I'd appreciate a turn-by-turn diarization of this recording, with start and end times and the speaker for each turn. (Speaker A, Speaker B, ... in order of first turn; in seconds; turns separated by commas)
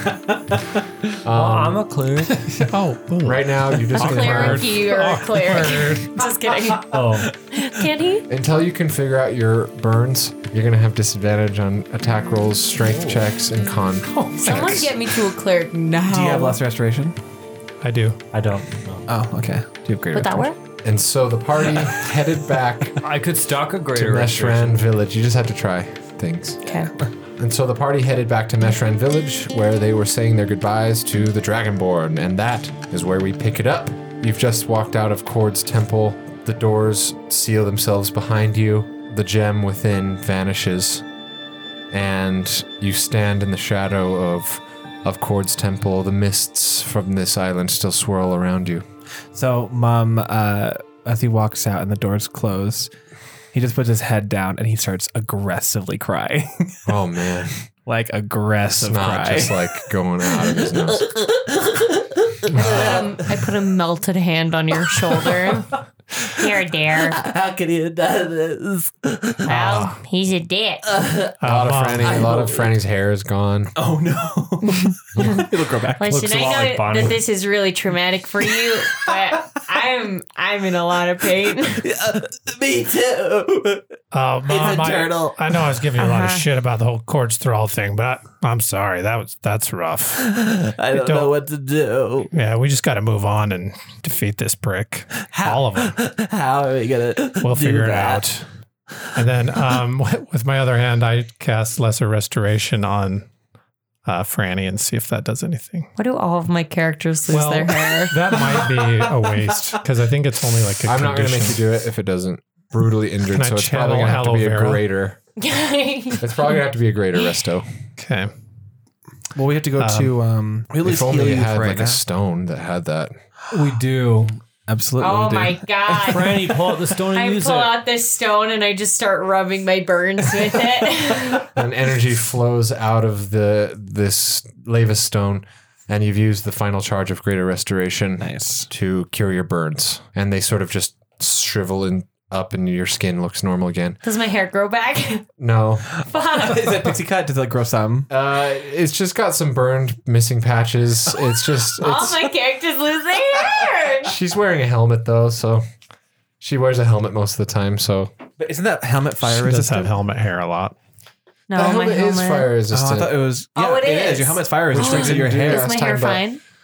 Speaker A: 1.2-1.8, Speaker B: 1.4-2.5, Speaker C: 2.7-6.2, Speaker A: 3.2-4.7, Speaker D: 4.0-8.3, Speaker B: 6.9-7.3, Speaker A: 8.3-14.9, Speaker D: 14.4-16.6, Speaker E: 16.0-17.2, Speaker C: 17.8-18.2, Speaker B: 18.3-19.1, Speaker E: 19.1-20.5, Speaker D: 20.1-20.6, Speaker A: 20.8-23.0, Speaker B: 23.0-24.9, Speaker A: 23.9-26.6, Speaker D: 26.6-26.9, Speaker A: 27.4-41.1, Speaker A: 41.9-48.9, Speaker E: 49.3-52.9, Speaker E: 53.5-56.8, Speaker A: 56.9-57.7, Speaker E: 57.9-63.4, Speaker A: 58.7-61.1, Speaker A: 62.5-63.1, Speaker D: 62.5-65.7, Speaker E: 65.1-65.7, Speaker D: 66.3-67.2, Speaker E: 67.0-69.5, Speaker D: 69.5-70.8, Speaker C: 69.5-70.0, Speaker E: 70.9-71.4, Speaker C: 71.4-72.2, Speaker A: 71.4-73.8, Speaker E: 72.0-72.7, Speaker E: 73.8-76.2, Speaker D: 76.0-81.8, Speaker B: 76.1-77.2, Speaker E: 81.8-83.8, Speaker C: 84.1-90.3, Speaker E: 84.5-85.4, Speaker D: 86.0-86.5, Speaker E: 90.2-92.3, Speaker C: 90.9-91.3, Speaker C: 92.3-96.0, Speaker E: 95.3-98.2, Speaker C: 97.4-98.5, Speaker C: 99.2-103.3, Speaker C: 104.0-105.9, Speaker D: 106.0-108.2, Speaker C: 107.3-111.6, Speaker E: 108.3-109.5, Speaker A: 110.8-115.2, Speaker C: 113.3-114.9, Speaker D: 115.4-116.5, Speaker A: 116.2-117.7, Speaker C: 118.0-118.3, Speaker E: 119.3-122.0, Speaker C: 119.8-120.2, Speaker A: 120.8-123.2, Speaker B: 123.5-124.4, Speaker E: 124.7-126.3, Speaker D: 125.0-126.5, Speaker B: 126.1-127.7, Speaker D: 127.1-131.5, Speaker A: 131.4-144.0, Speaker E: 138.2-138.7, Speaker D: 144.0-145.2, Speaker A: 145.4-145.9, Speaker D: 146.1-146.8, Speaker E: 146.3-148.1, Speaker A: 148.1-152.2, Speaker D: 151.8-154.1, Speaker A: 154.0-155.6, Speaker A: 156.4-158.1, Speaker E: 158.4-159.9, Speaker C: 159.2-160.8, Speaker D: 161.5-162.5, Speaker A: 161.6-163.2, Speaker E: 162.7-165.7, Speaker D: 163.6-166.4, Speaker A: 164.7-166.2